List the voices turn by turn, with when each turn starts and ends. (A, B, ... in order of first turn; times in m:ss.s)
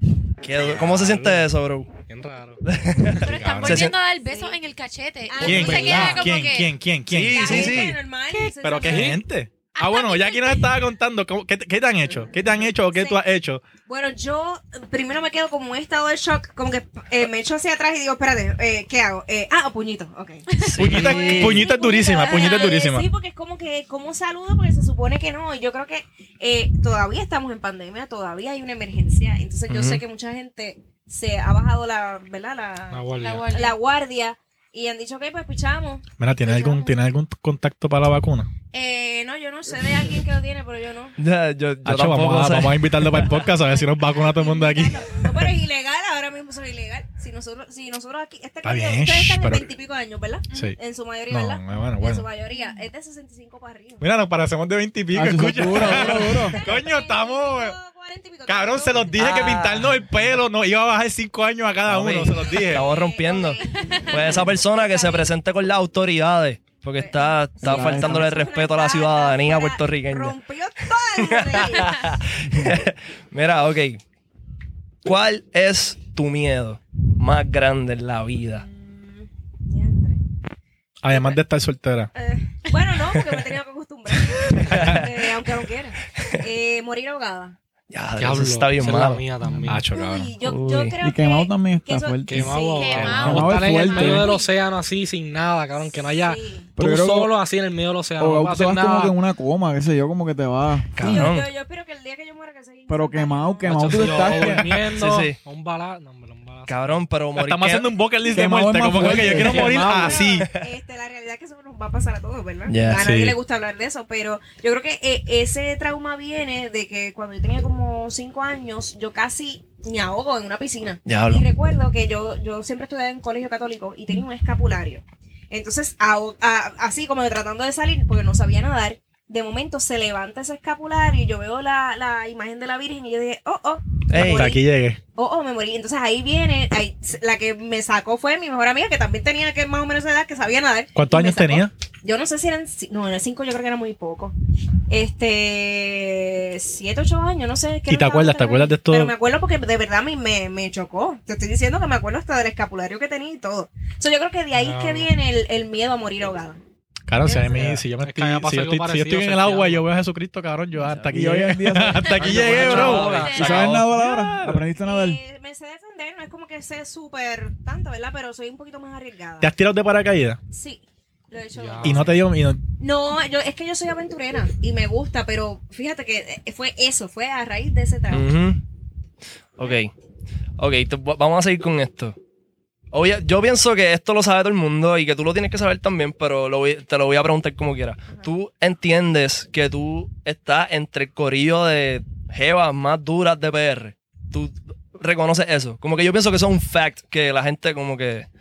0:00.4-0:01.9 A
0:00.6-0:01.4 B
0:02.1-0:02.6 C
0:02.6-0:04.0 A
0:03.2-0:06.7 D
0:03.2-0:03.9 B
0:04.2-0:04.6 E
0:05.3-0:06.5 E
0:05.4-0:07.9 B
0:07.1-0:08.0 A
0:07.3-0:09.2 E
0:08.3-0:08.8 D
0:08.6-0:13.6 B
0:08.8-0:09.2 C
0:09.7-0:10.8 D
0:12.3-0:13.2 E
0:13.9-0:37.0 E
0:20.6-0:21.7 A
0:20.8-0:23.1 B
0:29.7-0:30.0 A
0:32.9-0:33.5 C
0:33.2-0:33.8 D
0:36.2-0:38.5 B
0:38.7-0:41.2 E
0:41.2-0:43.3 A
0:41.8-0:45.1 B
0:43.3-0:43.8 D
0:43.4-0:54.0 E
0:48.6-0:49.6 B
0:51.3-0:52.2 B
0:54.0-0:57.7 B
0:55.1-0:56.6 F
0:55.7-0:59.4 E
0:58.5-1:02.8 B
0:59.2-1:00.0 A
1:01.8-1:10.4 A
1:02.4-1:05.3 E
1:07.0-1:12.1 E
1:07.6-1:08.3 F
1:11.2-1:14.0 A
1:15.0-1:18.6 A
1:18.5-1:20.2 E
1:21.0-1:22.1 B
1:21.1-1:21.4 E
1:22.1-1:27.6 E
1:24.5-1:25.1 A
1:24.8-1:25.0 B
1:27.9-1:29.2 A
1:28.2-1:29.8 C
1:29.4-1:29.8 F
1:29.6-1:30.3 B
1:29.9-1:33.2 E
1:30.4-1:30.9 A
1:31.0-1:32.5 F
1:32.3-1:39.2 C
1:32.7-1:34.5 D
1:33.0-1:33.5 B
1:33.2-1:34.3 F
1:35.9-1:36.7 E
1:36.8-1:37.3 F
1:38.2-1:41.2 F
1:41.0-1:41.3 B
1:41.0-1:41.5 A
1:41.0-1:44.0 E
1:42.9-1:44.8 F
1:43.7-1:47.0 C
1:43.7-1:44.0 A
1:44.3-1:44.6 B
1:44.9-1:45.4 A
1:46.7-1:47.9 A
1:47.4-1:50.5 B
1:48.2-1:48.6 E
1:48.3-1:50.1 F
1:49.0-1:50.3 C
1:49.3-2:14.6 E
1:52.7-1:53.0 A
1:52.9-1:53.4 B
2:01.0-2:01.4 A
2:14.1-2:14.5 A
2:14.1-2:15.0 B
2:15.1-2:24.3 E
2:20.9-2:21.7 B
2:24.9-2:36.6 E
2:27.9-2:29.1 B
2:34.5-2:35.1 C
2:37.1-2:44.6 B
2:37.5-2:39.9 C
2:40.8-2:41.1 A
2:41.1-2:42.6 F
2:42.2-2:43.4 C
2:42.3-2:43.9 A
2:42.8-2:43.6 D
2:43.3-2:45.2 F
2:44.8-2:49.5 E
2:49.4-2:50.4 B
2:50.5-2:52.2 E
2:51.5-2:52.2 C
2:51.8-2:52.6 B
2:52.8-2:58.3 E
2:58.1-2:58.6 A
2:59.6-2:59.9 A
3:00.6-3:02.2 A
3:02.9-3:18.3 A